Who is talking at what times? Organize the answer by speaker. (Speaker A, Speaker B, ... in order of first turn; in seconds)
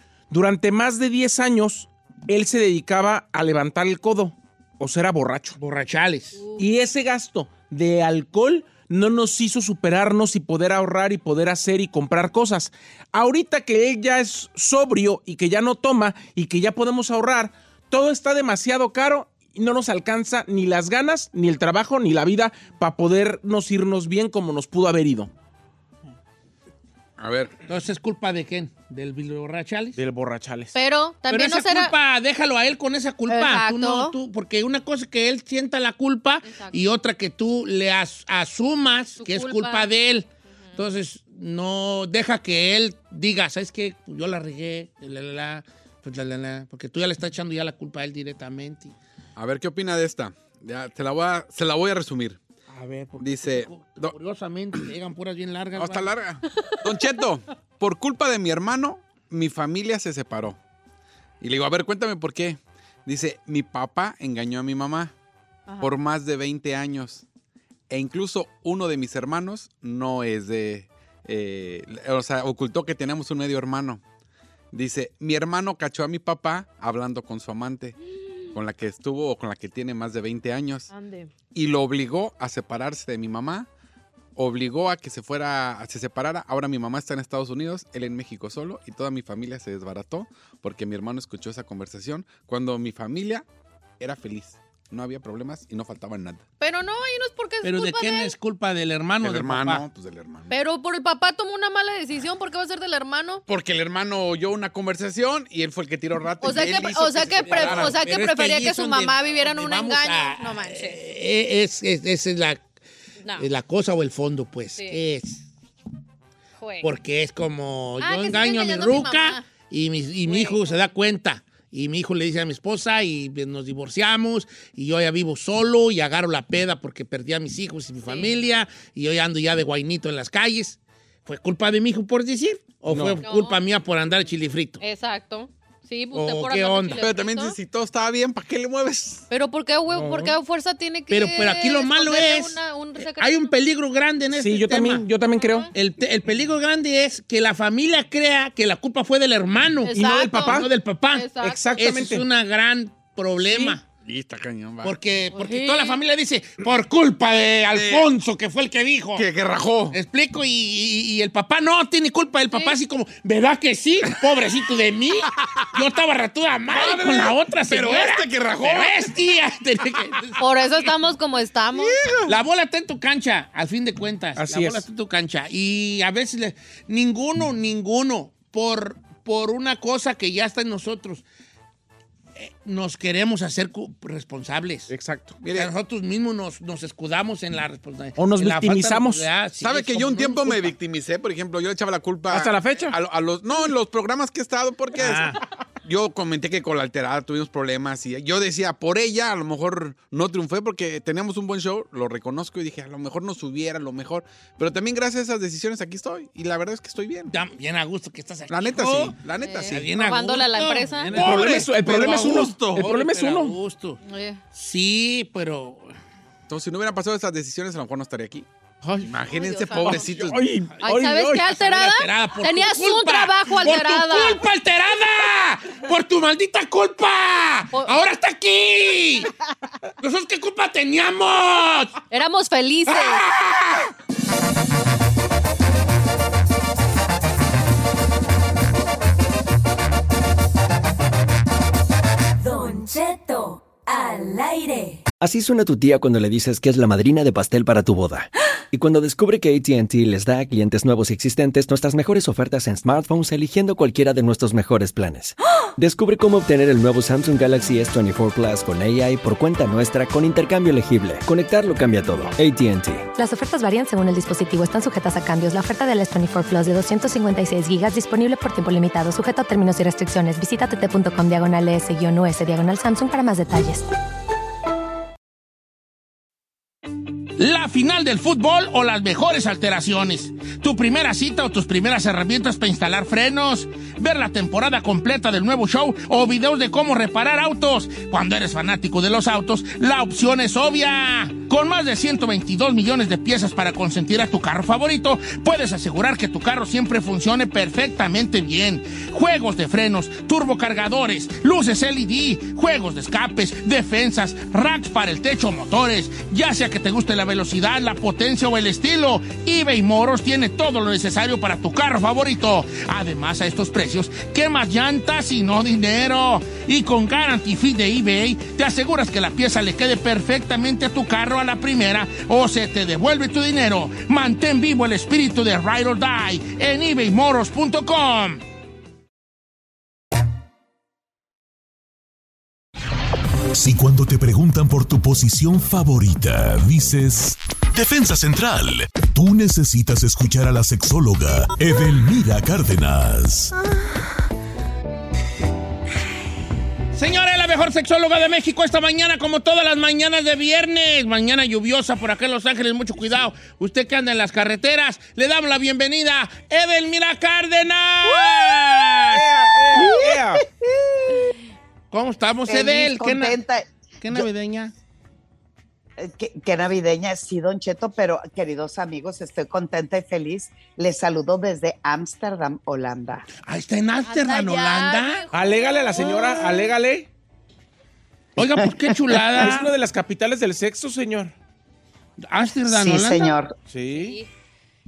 Speaker A: 0.3-5.6, 6.6-25.3, 30.0-30.7, 132.9-133.2, 139.9-140.3, 144.3-145.7, 149.9-150.7, 151.4-152.2, 174.4-174.8, 184.9-185.4, 188.2-189.3, 192.3-193.0, 211.1-213.6, 219.8-221.6, 359.1-360.4, 375.3-377.1, 379.4-381.3, 383.7-384.2
Speaker B: 5.6-6.4, 27.7-30.0, 31.3-48.9, 52.7-56.1, 97.6-99.8, 107.5-112.6, 113.3-115.4, 116.8-134.8, 136.1-137.0, 141.1-145.1, 145.7-153.8, 154.8-159.3, 159.9-170.4, 172.3-181.2, 182.4-184.9, 185.5-190.8, 195.0-195.4, 207.3-209.2, 209.7-214.0, 214.5-215.9, 221.6-229.3, 230.0-231.9, 232.9-233.9, 277.4-328.4, 346.9-359.2, 361.9-363.4, 364.0-364.7, 373.4-375.2, 376.1-376.4, 378.4-379.7, 382.2-383.4
Speaker C: 27.2-27.6, 49.4-52.4, 53.2-54.2, 55.8-60.6, 61.4-65.1, 65.8-67.2, 67.9-74.0, 74.7-78.0, 78.5-80.9, 81.5-83.7, 84.3-93.5, 94.0-96.4, 99.2-100.5, 103.5-108.0, 137.0-139.2, 154.0-155.0, 157.7-158.1, 159.2-160.0, 166.7-169.3, 171.8-172.4, 185.4-185.7, 189.6-207.3, 208.5-209.9, 211.1-212.7, 216.5-218.5, 219.0-220.6
Speaker D: 30.7-31.9, 33.3-34.1, 36.5-36.8, 39.2-39.9, 80.9-81.3, 96.6-98.3, 100.5-103.4, 106.4-111.0, 113.2-113.5, 116.6-116.9, 118.0-119.5, 120.3-120.8, 128.1-128.4, 133.2-133.6, 134.8-137.6, 139.3-143.5, 145.3-145.7, 149.9-151.6, 155.3-156.0, 170.4-172.0, 209.4-211.2, 214.1-214.4, 219.2-220.1, 220.8-224.4, 227.7-228.0, 232.1-233.2, 374.1-376.5, 383.9-384.3
Speaker E: 242.4-245.1
Speaker F: 245.2-263.1
Speaker G: 263.2-273.9
Speaker H: 333.6-343.5
Speaker I: 359.7-361.3, 362.5-364.3, 366.0-373.3, 378.4-379.6, 382.7-383.6